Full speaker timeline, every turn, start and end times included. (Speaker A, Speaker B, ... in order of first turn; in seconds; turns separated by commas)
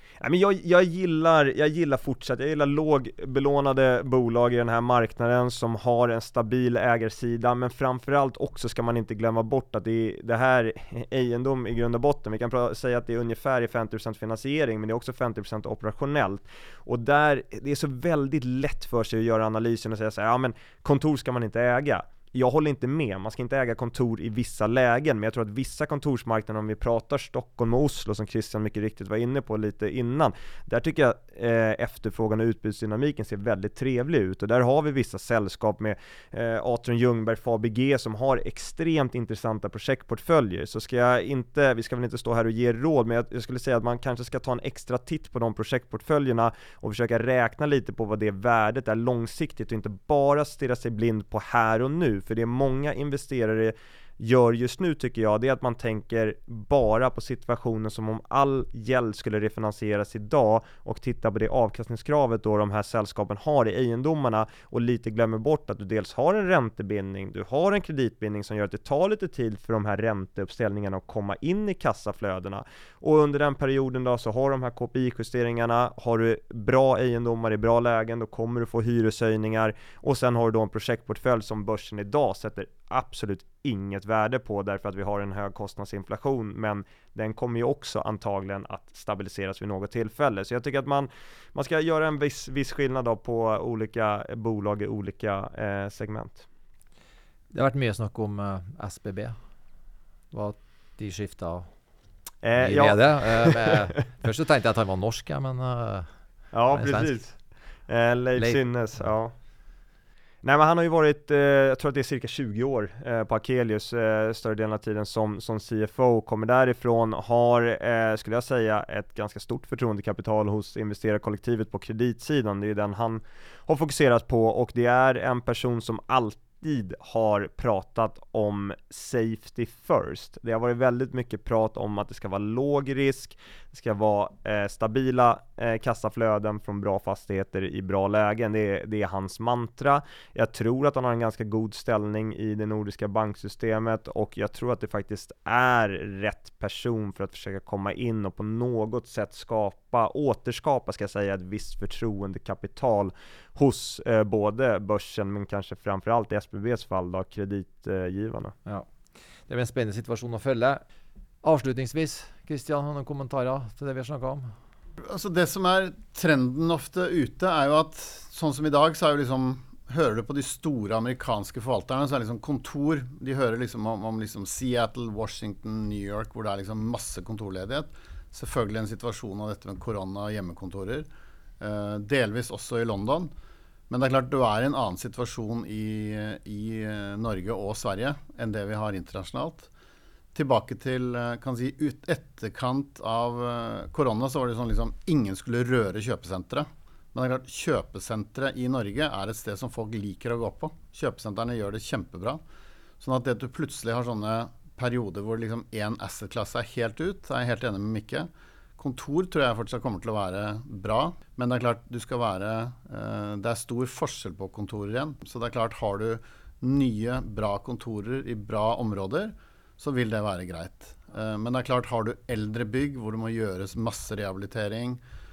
Speaker A: 0.2-96.5, Speaker B: 97.5-99.3, Speaker B: 100.3-101.7, Speaker A: 102.4-103.9, Speaker B: 102.6-106.1, Speaker A: 106.5-107.3, Speaker B: 106.7-107.2, Speaker A: 107.9-109.3, Speaker A: 110.4-158.5, Speaker B: 159.5-160.8, Speaker B: 161.4-164.5, Speaker C: 165.0-181.1, Speaker C: 181.6-183.3, Speaker C: 183.9-189.7, Speaker C: 190.3-202.4, Speaker C: 203.0-225.0